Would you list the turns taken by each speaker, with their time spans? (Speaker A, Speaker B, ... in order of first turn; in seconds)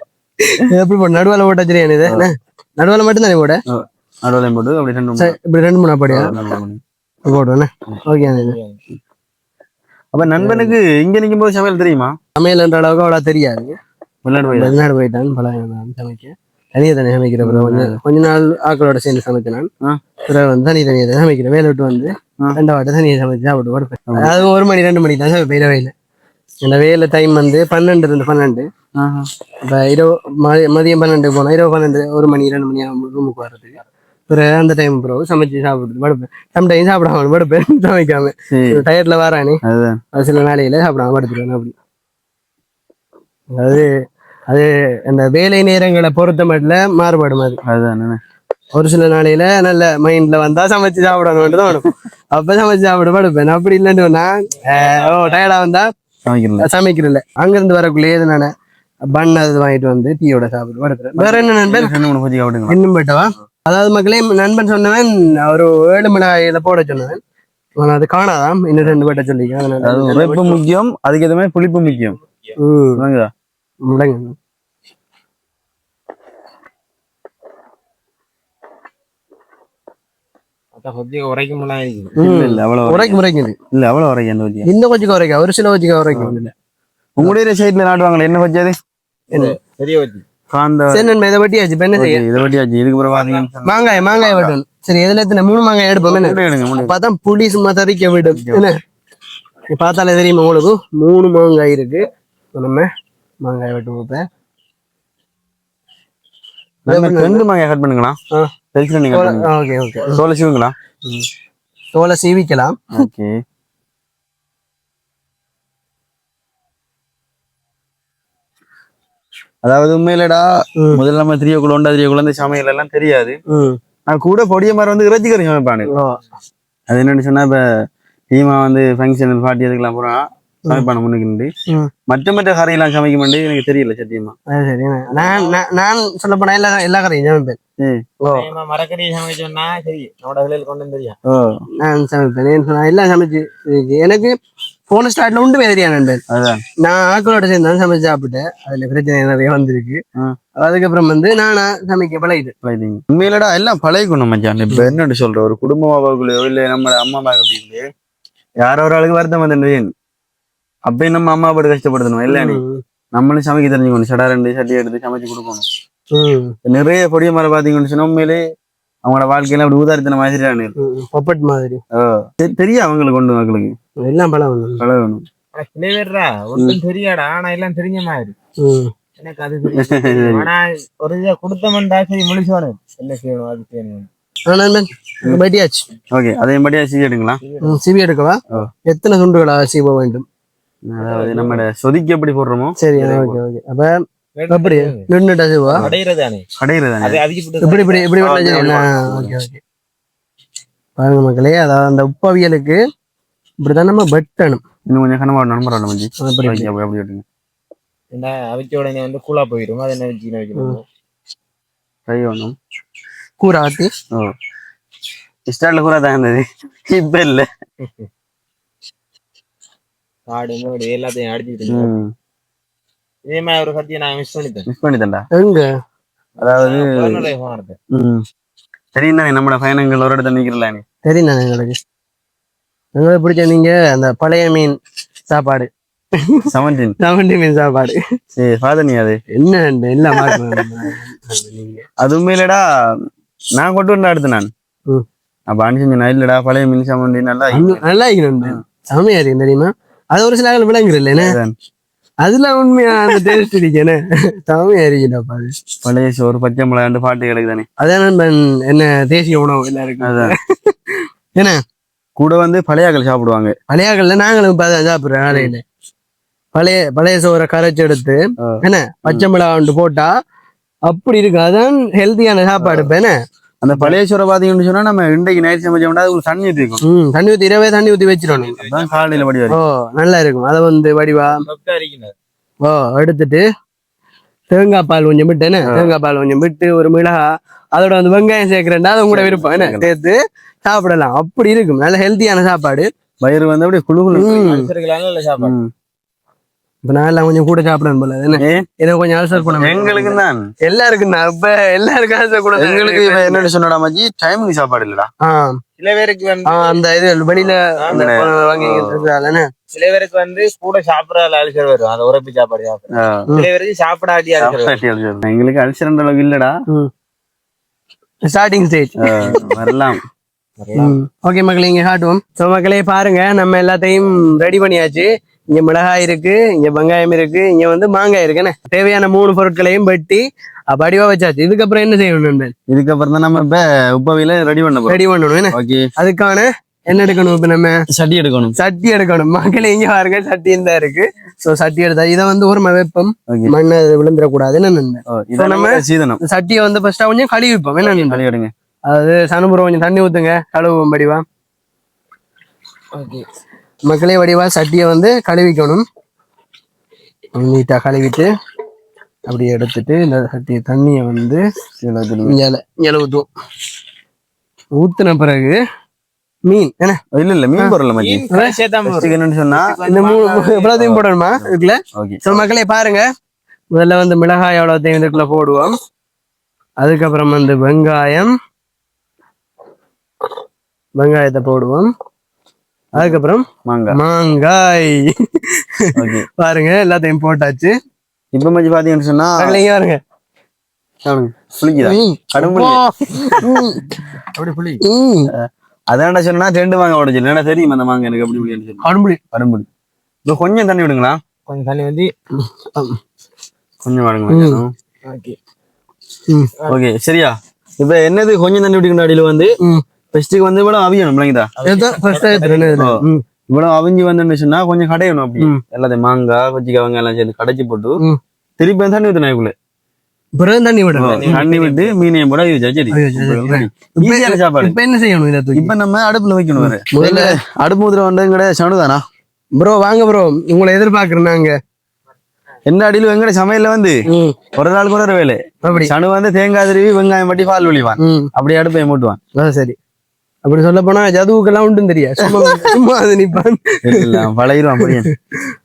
Speaker A: 0.4-3.6, 5.2-6.4, 7.2-8.6, 10.2-10.8, 12.4-13.8, 14.4-19.7, 20.3-25.9, 26.6-28.7, 29.6-39.6, 40.1-41.7, 43.5-43.9, 44.5-47.6, 48.7-55.9, 56.6-58.5, 59.0-61.9, 62.7-67.2, 67.8-70.6, 72.6-73.0, 73.8-74.3, 82.2-83.6, 84.6-86.5, 90.9-92.2, 93.6-98.8, 99.7-102.0, 102.5-102.9, 103.4-104.2, 106.9-107.4, 109.1-110.2, 111.9-112.8, 123.5-123.8, 125.8-126.2, 134.5-137.6, 138.2-138.5, 141.8-144.4, 144.9-146.2, 146.8-150.0, 150.6-152.5, 154.7-154.9, 162.3-162.8, 166.1-166.6, 170.8-171.8, 174.0-174.8, 178.6-178.9, 184.5-185.8, 187.6-190.2, 192.8-195.8, 197.6-199.6, 201.0-202.8, 203.6-204.6, 206.2-206.7, 213.4-213.9, 225.3-225.7, 231.0-231.8, 232.9-234.8, 235.3-236.4, 237.0-238.0, 239.3-241.8, 247.5-251.3, 252.2-255.5, 257.8-261.6, 263.7-265.6, 266.5-270.1, 270.9-273.1, 276.8-278.6, 279.5-281.4, 282.6-283.4, 284.5-292.9, 294.1-294.7, 296.8-300.1, 300.6-303.5, 305.2-305.6, 306.5-309.5, 318.2-319.4, 320.8-332.5, 334.9-337.8, 338.6-348.2, 348.9-351.2, 353.9-355.8, 357.3-358.3, 359.3-361.4, 362.2-363.3, 364.8-365.6, 366.5-367.0, 368.3-368.6, 369.9-373.1, 373.7-375.7, 376.8-378.3, 381.0-381.9, 382.9-387.7, 389.4-390.0, 391.8-393.9, 394.8-395.3, 398.8-399.2, 402.4-403.0, 404.3-404.6, 411.6-413.2, 420.4-421.4, 422.9-425.7, 426.6-427.4, 429.6-431.6, 434.1-434.4, 435.6-435.9, 438.0-438.3, 439.4-439.8, 440.4-444.2, 444.8-445.1
Speaker B: 3.7-5.3, 6.1-6.8, 10.1-12.1, 14.2-14.8, 17.4-18.0, 24.1-24.4, 29.0-29.3, 38.5-38.8, 39.6-40.0, 47.6-48.2, 56.2-56.7, 61.2-62.8, 69.8-72.2, 73.0-73.3, 82.2-83.2, 83.7-84.7, 86.1-86.4, 87.2-88.8, 90.5-91.1, 91.9-94.5, 96.0-96.9, 98.3-98.7, 106.8-108.2, 108.7-109.5, 110.1-110.7, 112.9-113.3, 119.6-123.4, 124.1-125.9, 126.9-127.7, 128.3-131.5, 132.1-134.3, 137.8-138.0, 141.2-141.6, 146.3-146.6, 152.6-157.9, 158.6-159.9, 160.8-162.6, 163.1-165.7, 166.6-168.4, 169.0-170.7, 171.9-173.7, 174.8-175.2, 179.7-180.5, 186.1-187.4, 190.9-193.4, 196.6-197.2, 204.9-207.2, 212.1-212.5, 215.5-217.5, 221.7-222.1, 224.7-225.2, 226.4-227.3, 227.9-228.2, 228.9-230.8, 236.5-236.9, 238.3-239.2, 240.1-240.6, 242.0-242.6, 243.6-244.5, 245.5-247.8, 251.2-251.5, 255.8-257.7, 260.0-260.3, 262.2-263.5, 268.4-269.3, 272.6-272.9, 273.6-276.8, 278.6-279.6, 289.1-289.9, 293.2-294.4, 295.4-295.7, 298.4-298.6, 299.6-300.5, 302.6-305.1, 307.9-309.0, 312.9-313.3, 314.4-316.6, 319.0-320.0, 332.7-335.0, 335.5-335.9, 337.9-338.6, 345.1-346.2, 347.8-348.5, 361.8-362.4, 367.1-368.2, 368.9-369.8, 370.8-371.4, 371.9-372.4, 382.9-384.0, 385.9-386.3, 388.3-389.6, 391.0-393.6, 395.3-398.8, 399.3-399.6, 400.2-401.2, 403.8-404.7, 406.7-409.5, 410.1-411.5, 412.8-418.0, 418.6-419.5, 420.9-424.8, 425.5-429.0, 432.6-434.0, 434.6-439.2, 442.2-442.7, 443.8-445.1
Speaker C: 8.2-8.8, 54.7-55.4, 80.8-82.1, 89.3-90.2, 93.1-93.5, 135.2-135.6, 138.3-141.2, 175.5-178.3, 179.2-184.1, 187.4-187.8, 191.0-191.6, 194.3-195.1, 195.8-196.4, 197.0-199.3, 208.1-210.8, 220.3-221.9, 223.3-224.7, 226.4-227.8, 278.3-279.3, 281.2-282.1, 294.3-295.5, 299.4-300.1, 305.8-306.8, 307.4-308.1, 309.7-314.8, 320.6-321.0, 352.9-353.2, 368.0-370.9, 394.3-394.8, 401.5-402.1, 405.0-405.4, 411.6-412.9, 421.1-421.9